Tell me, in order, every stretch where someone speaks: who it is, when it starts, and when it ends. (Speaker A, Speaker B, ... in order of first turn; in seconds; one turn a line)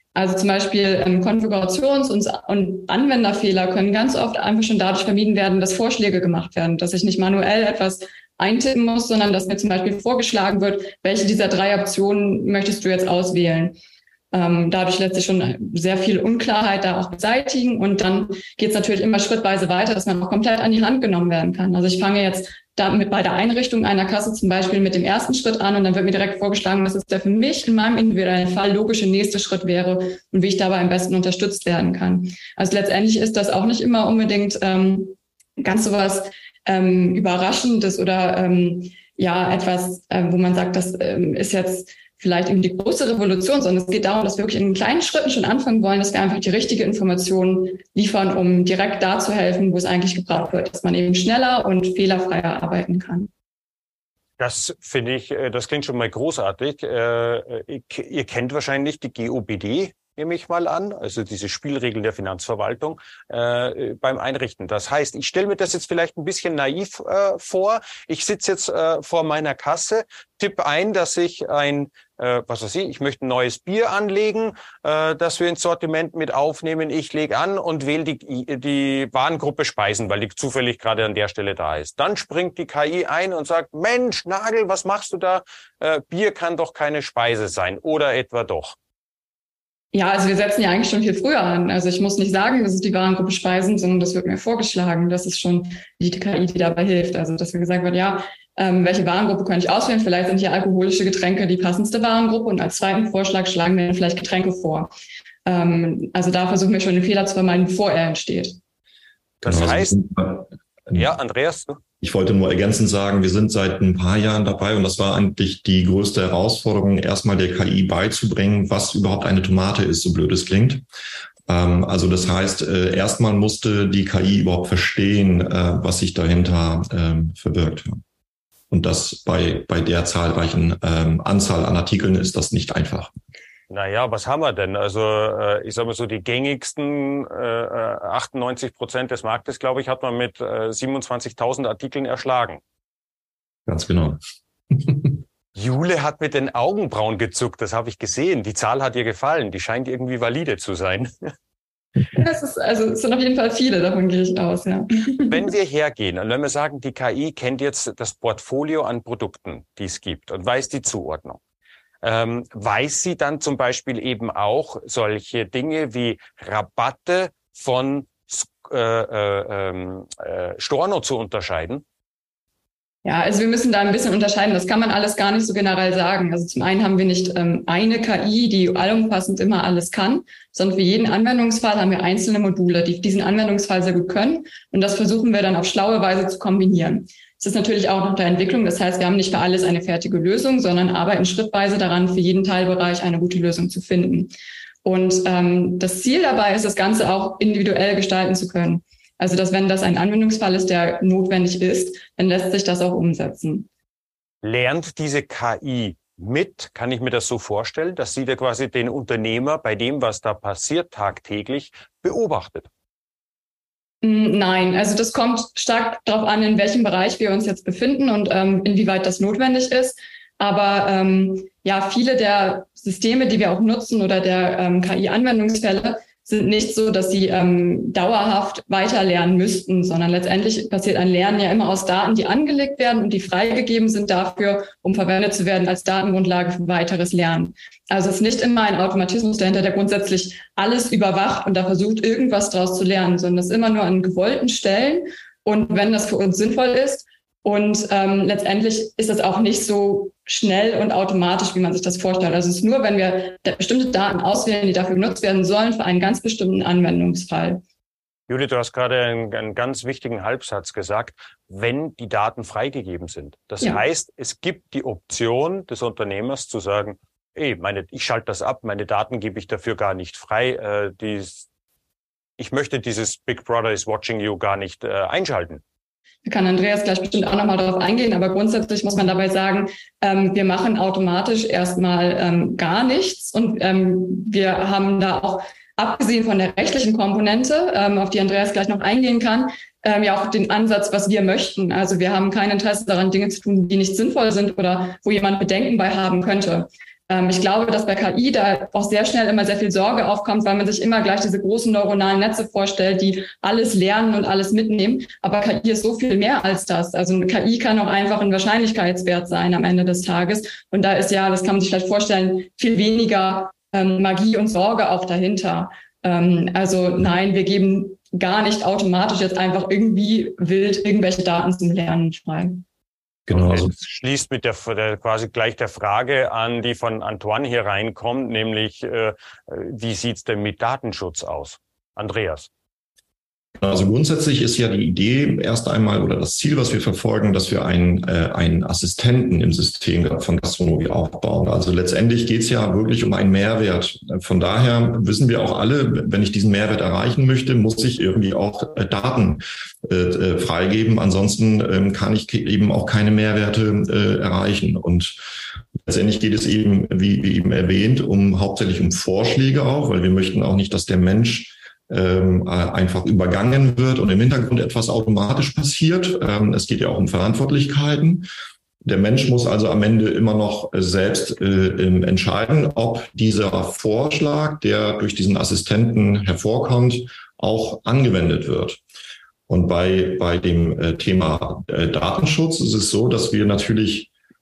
Speaker A: 0.1-13.8
Speaker A: 14.3-53.3
Speaker B: 54.4-88.8
Speaker A: 89.9-104.9
Speaker A: 105.5-108.6
Speaker C: 109.4-111.1
Speaker B: 109.4-110.0
Speaker B: 110.9-111.8
Speaker C: 112.0-120.8
Speaker C: 121.5-128.0
Speaker C: 128.7-133.1
Speaker B: 133.7-142.6
Speaker C: 143.7-144.2
Speaker C: 144.7-145.1
Speaker B: 145.6-151.3
Speaker A: 152.1-155.4
Speaker B: 155.3-161.4
Speaker B: 162.0-171.8
Speaker A: 173.1-194.3
Speaker A: 194.8-203.7
Speaker B: 204.4-212.7
Speaker A: 214.0-257.6
Speaker B: 258.3-271.5
Speaker B: 272.4-275.6
Speaker A: 276.3-322.6
Speaker C: 323.3-323.7
Speaker B: 323.3-332.5
Speaker C: 333.6-355.3
Speaker C: 355.8-368.3
Speaker C: 368.8-378.8
Speaker C: 379.5-384.1